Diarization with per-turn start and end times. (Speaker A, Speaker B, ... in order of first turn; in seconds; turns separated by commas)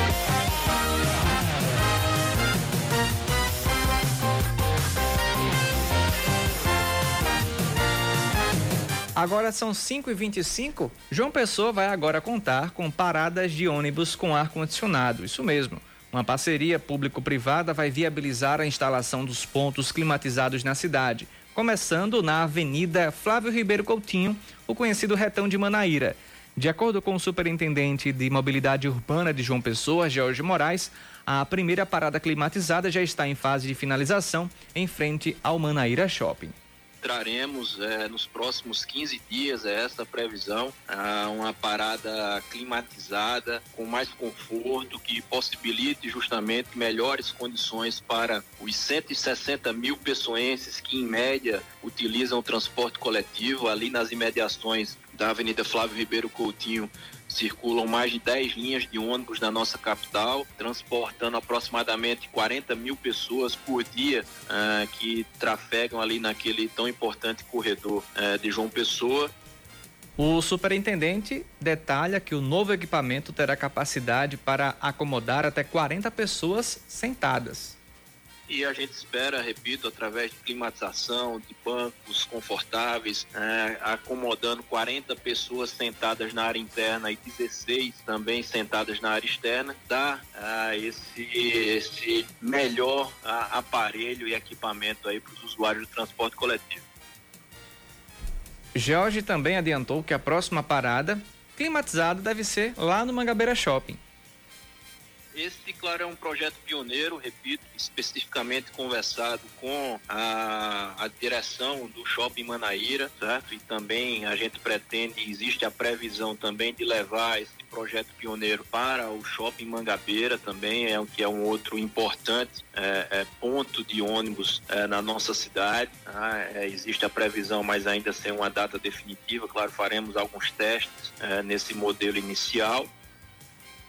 Speaker A: 9.2-36.5, Speaker B: 37.0-69.3, Speaker A: 70.2-77.8, Speaker B: 78.5-96.8, Speaker A: 98.7-104.0, Speaker B: 105.3-132.9